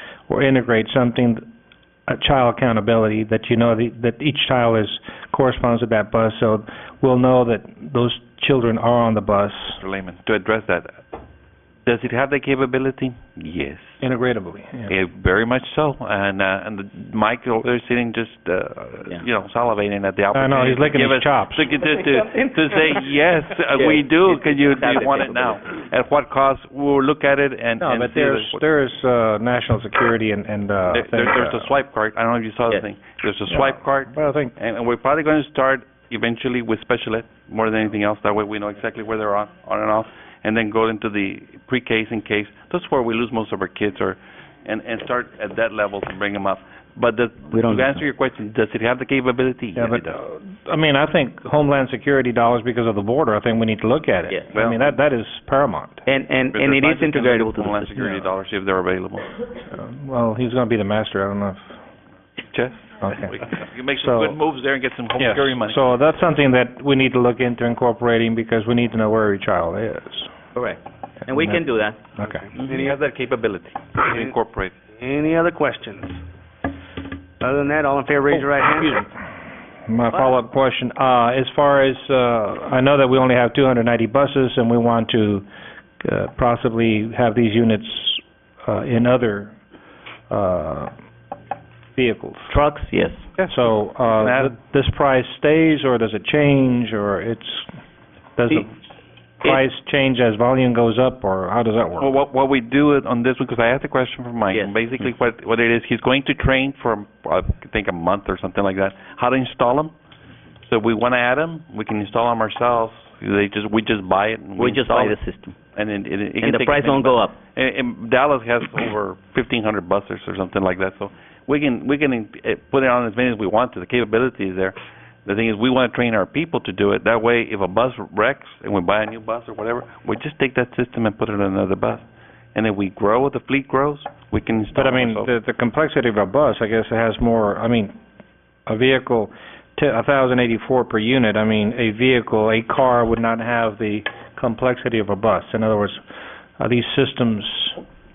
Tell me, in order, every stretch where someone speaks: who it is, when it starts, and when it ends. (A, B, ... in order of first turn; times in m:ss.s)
0:00.3-0:01.4 A
0:02.1-0:09.8 A
0:09.8-0:11.0 B
0:11.8-0:14.0 B
0:14.0-0:14.9 A
0:14.9-0:28.6 B
0:20.3-0:21.6 A
0:23.7-0:25.6 C
0:27.8-0:31.7 A
0:30.9-0:50.1 B
0:33.5-0:34.5 A
0:47.5-0:48.0 C
0:49.8-0:56.0 A
0:54.5-0:54.8 B
0:56.0-0:58.3 C
0:56.5-0:59.3 B
0:59.7-1:01.7 A
1:02.5-1:05.8 B
1:03.0-1:03.3 A
1:04.0-1:04.4 A
1:05.2-1:10.3 A
1:10.5-1:12.0 C
1:12.2-1:12.5 A
1:12.7-1:14.7 B
1:14.0-1:14.3 D
1:15.0-1:16.2 D
1:17.4-1:19.1 D
1:19.9-1:25.4 A
1:26.0-1:29.5 A
1:30.3-1:30.9 A
1:32.0-1:32.5 A
1:32.5-1:33.3 C
1:33.4-1:37.8 A
1:34.1-1:34.5 B
1:38.4-1:38.7 A
1:39.4-1:42.1 A
1:42.0-1:49.9 B
1:44.5-1:44.9 C
1:50.6-1:55.2 B
1:54.6-1:55.6 C
1:55.7-2:04.7 B
1:56.4-1:57.4 C
2:05.2-2:15.3 B
2:14.7-2:17.9 A
2:18.7-2:26.0 A
2:26.6-2:27.8 A